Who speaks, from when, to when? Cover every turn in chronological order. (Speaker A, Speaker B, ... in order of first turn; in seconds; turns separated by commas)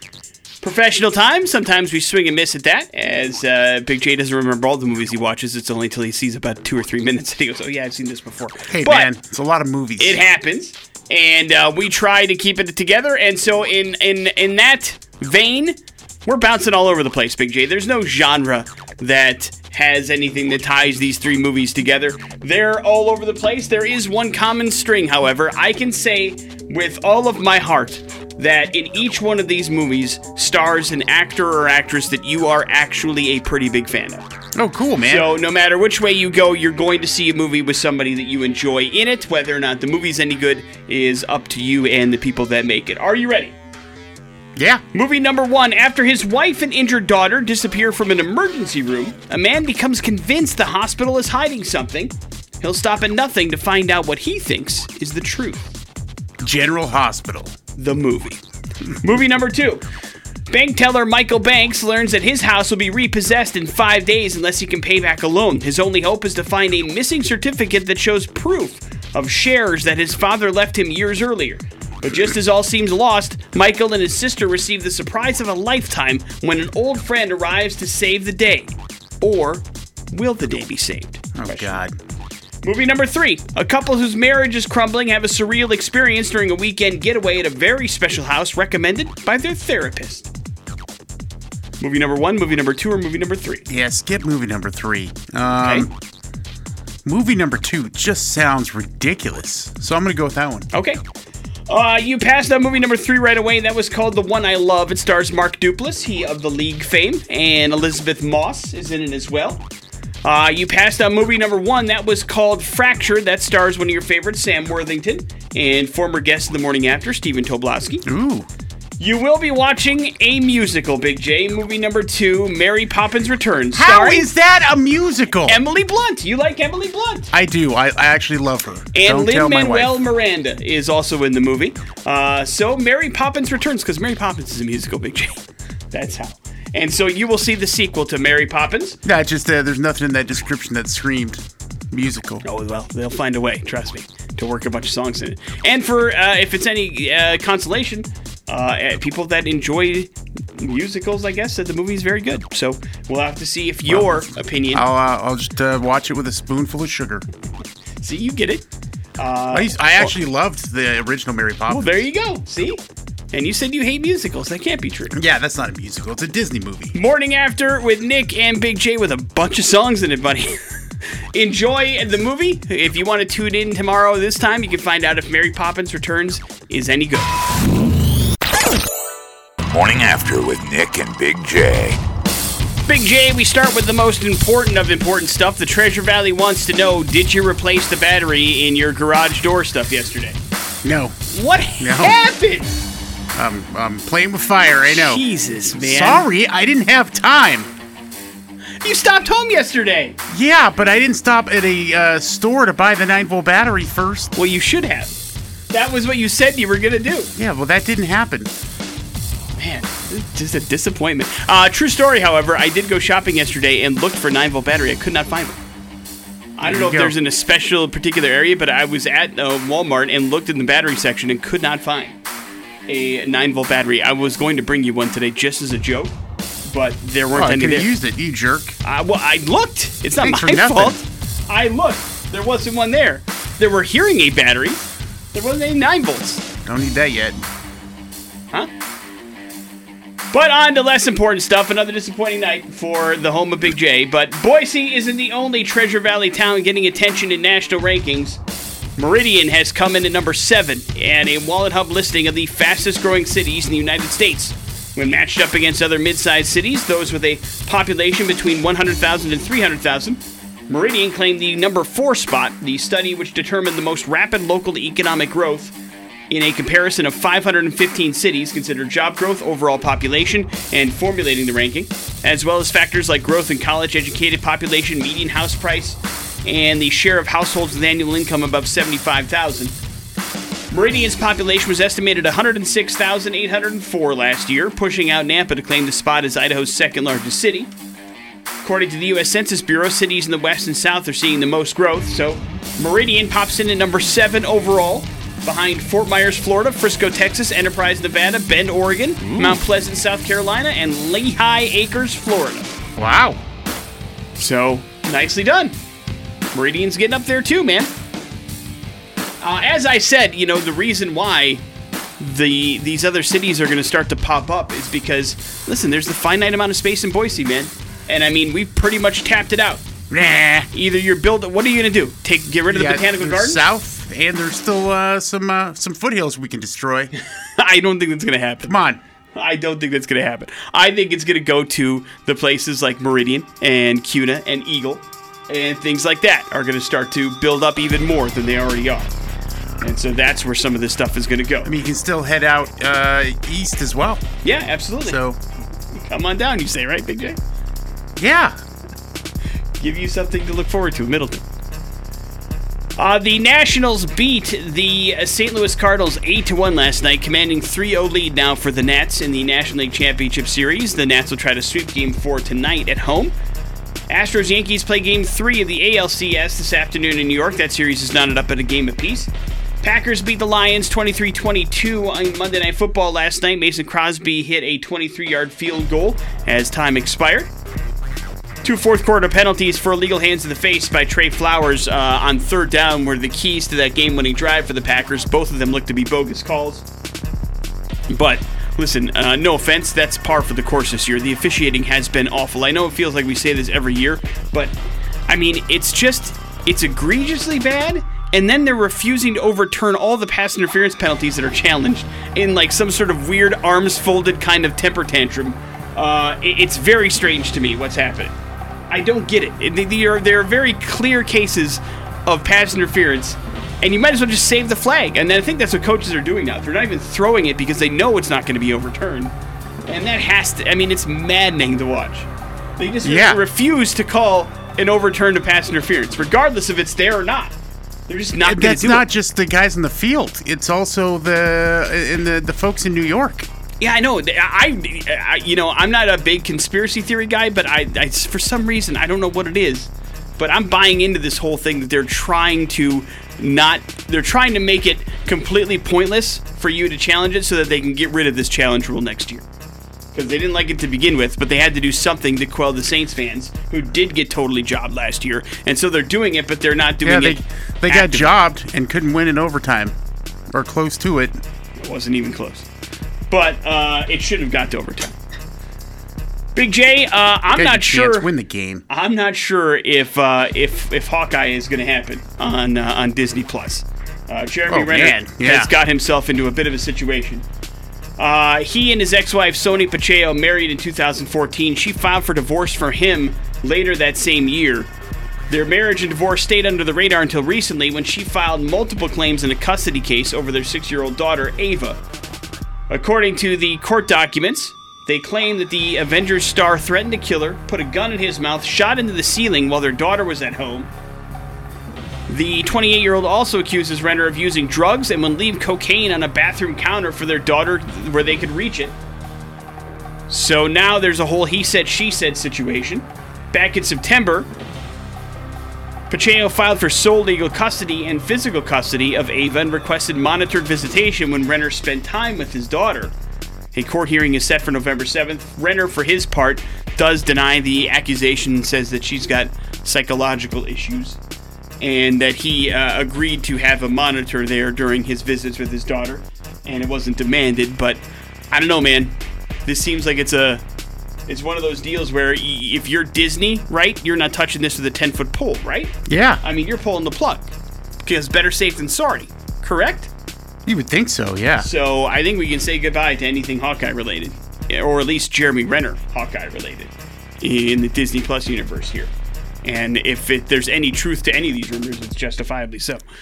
Speaker A: 0.6-9.1, Speaker B: 8.7-10.2, Speaker A: 10.0-34.2, Speaker B: 34.5-35.3, Speaker A: 35.0-43.5, Speaker B: 44.5-44.8, Speaker A: 44.9-55.7, Speaker B: 56.4-57.5, Speaker A: 57.8-58.4, Speaker A: 59.0-59.8, Speaker A: 60.5-81.8, Speaker B: 81.3-81.9, Speaker A: 82.6-90.3, Speaker A: 91.8-93.7, Speaker B: 93.7-95.9, Speaker A: 95.6-95.9, Speaker B: 97.0-100.7, Speaker A: 100.7-101.0, Speaker A: 101.7-109.6, Speaker A: 110.2-118.0, Speaker B: 118.0-118.5, Speaker A: 119.0-124.2, Speaker B: 123.7-125.6, Speaker A: 125.5-127.3, Speaker B: 127.3-130.0, Speaker A: 128.9-135.4, Speaker A: 135.9-139.0, Speaker B: 139.0-142.4, Speaker A: 142.4-154.8, Speaker B: 153.9-157.2, Speaker A: 158.0-158.6, Speaker A: 159.2-160.1, Speaker B: 159.5-162.1, Speaker A: 161.7-162.8, Speaker A: 163.3-165.1, Speaker B: 165.1-166.9, Speaker A: 166.9-170.6, Speaker A: 171.3-177.3, Speaker C: 179.7-182.0, Speaker A: 182.8-190.4, Speaker B: 190.8-191.2, Speaker A: 191.3-192.7, Speaker B: 191.8-192.2, Speaker B: 193.3-197.7, Speaker A: 194.8-196.2, Speaker A: 198.8-200.2, Speaker B: 200.3-204.3, Speaker A: 204.3-205.2, Speaker A: 205.7-207.3, Speaker B: 207.3-208.5, Speaker A: 209.6-215.6, Speaker A: 216.6-222.2, Speaker B: 216.6-217.2, Speaker A: 222.9-226.1, Speaker A: 226.7-227.9, Speaker B: 227.3-228.8, Speaker A: 228.8-236.4, Speaker B: 230.2-231.0, Speaker B: 236.6-237.4, Speaker A: 240.3-248.4, Speaker A: 249.0-265.7, Speaker A: 266.3-279.7, Speaker A: 280.7-287.7, Speaker A: 288.6-302.7, Speaker B: 299.2-299.6, Speaker B: 303.0-303.4, Speaker A: 304.4-305.8, Speaker A: 306.5-307.9, Speaker A: 309.4-311.6, Speaker A: 312.2-319.8, Speaker B: 320.1-320.7, Speaker A: 320.7-323.6, Speaker B: 322.7-327.1, Speaker A: 327.6-328.8, Speaker B: 328.6-329.0, Speaker A: 329.3-339.1, Speaker A: 339.8-341.7, Speaker B: 341.6-344.2, Speaker A: 344.4-345.2, Speaker B: 345.0-345.4, Speaker A: 346.1-347.4, Speaker B: 348.2-348.6, Speaker A: 349.8-351.4, Speaker A: 353.0-363.3, Speaker A: 364.1-369.3, Speaker A: 369.8-377.5, Speaker A: 378.6-386.8, Speaker A: 388.1-394.7, Speaker A: 395.3-408.3, Speaker A: 408.9-419.3, Speaker A: 419.9-422.3, Speaker A: 422.8-427.5, Speaker B: 423.0-423.4, Speaker A: 428.1-429.1, Speaker B: 428.4-433.5, Speaker A: 433.8-449.4, Speaker A: 450.1-458.3, Speaker B: 457.0-459.9, Speaker B: 460.5-461.4, Speaker A: 461.8-462.6, Speaker A: 463.3-465.1, Speaker A: 466.5-468.3, Speaker B: 467.5-468.8, Speaker A: 468.9-477.4, Speaker B: 474.7-475.7, Speaker A: 478.2-484.9, Speaker A: 485.5-492.0, Speaker A: 492.9-500.9, Speaker A: 502.3-508.9, Speaker A: 510.3-514.5, Speaker A: 516.1-523.1, Speaker A: 523.7-531.2, Speaker A: 531.8-540.6, Speaker A: 541.3-547.5, Speaker B: 546.0-546.4, Speaker A: 548.0-550.1, Speaker B: 550.6-551.7, Speaker A: 551.6-559.1, Speaker A: 559.6-563.0